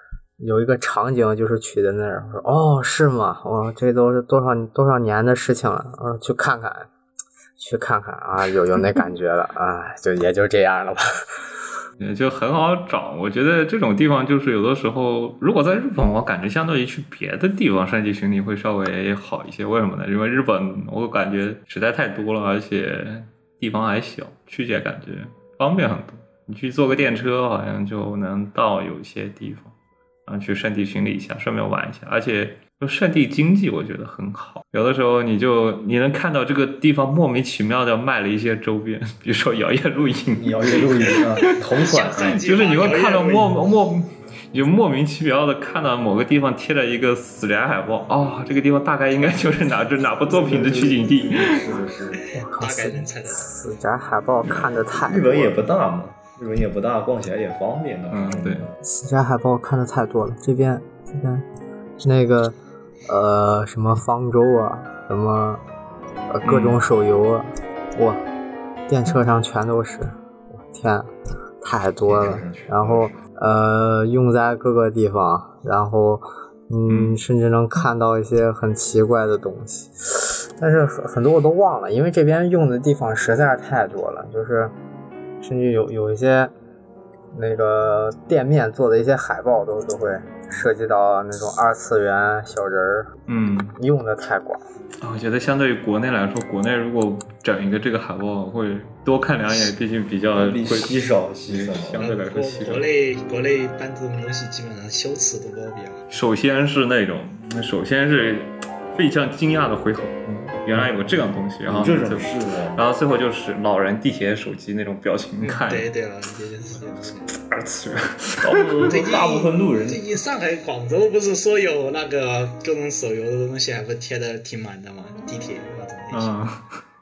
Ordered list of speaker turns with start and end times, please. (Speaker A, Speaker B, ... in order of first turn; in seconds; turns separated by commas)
Speaker A: 0.4-6.9, Speaker A: 7.6-11.1, Speaker B: 12.0-29.7, Speaker B: 30.2-41.5, Speaker C: 40.4-42.5, Speaker D: 41.4-43.5, Speaker B: 42.1-51.6, Speaker C: 50.2-52.2, Speaker A: 52.3-55.6, Speaker D: 52.4-53.5, Speaker C: 54.9-58.8, Speaker B: 58.1-58.6, Speaker A: 58.8-61.5, Speaker A: 62.0-62.5, Speaker A: 63.1-65.6, Speaker A: 66.3-68.2, Speaker B: 66.4-66.8, Speaker A: 68.9-71.1, Speaker A: 71.6-84.7, Speaker C: 72.0-73.2, Speaker B: 76.9-77.2, Speaker A: 85.4-86.5, Speaker A: 87.3-93.1, Speaker B: 93.3-93.8, Speaker A: 93.8-94.6, Speaker B: 95.0-102.9, Speaker C: 100.3-102.0, Speaker D: 102.0-106.0, Speaker B: 106.1-115.9, Speaker C: 111.7-112.8, Speaker D: 115.4-117.3, Speaker B: 117.3-118.8, Speaker C: 118.4-120.0, Speaker D: 118.8-126.3, Speaker B: 126.1-126.6